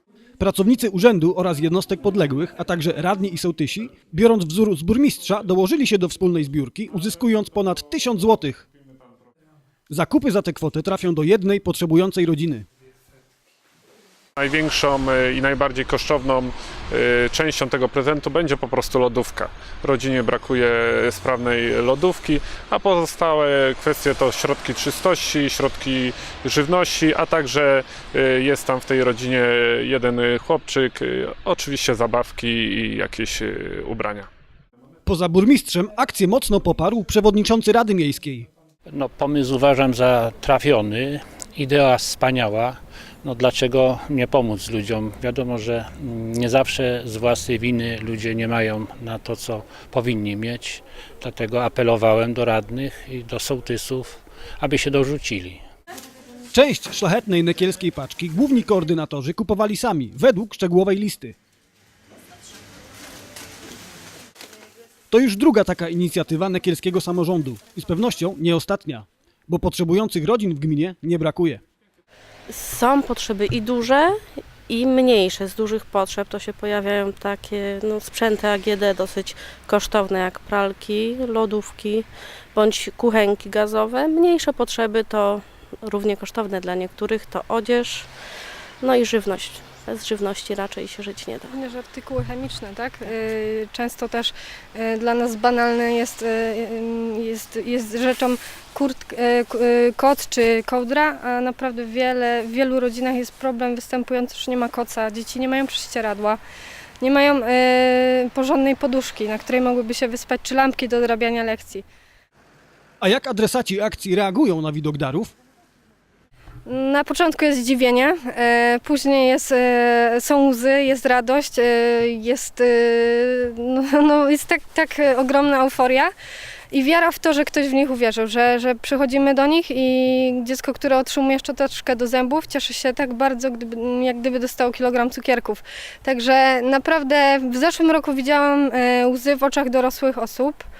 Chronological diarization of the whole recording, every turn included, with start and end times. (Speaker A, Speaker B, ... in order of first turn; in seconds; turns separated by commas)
Speaker A: 0.4-8.6, Speaker A: 9.9-12.7, Speaker B: 14.4-34.3, Speaker A: 35.0-38.5, Speaker C: 38.9-55.6, Speaker A: 56.5-61.4, Speaker A: 65.1-71.6, Speaker D: 72.5-88.1, Speaker D: 88.8-91.5, Speaker E: 91.5-106.4, Speaker E: 107.0-111.8, Speaker A: 113.0-115.3, Speaker E: 116.7-126.1, Speaker E: 126.7-140.7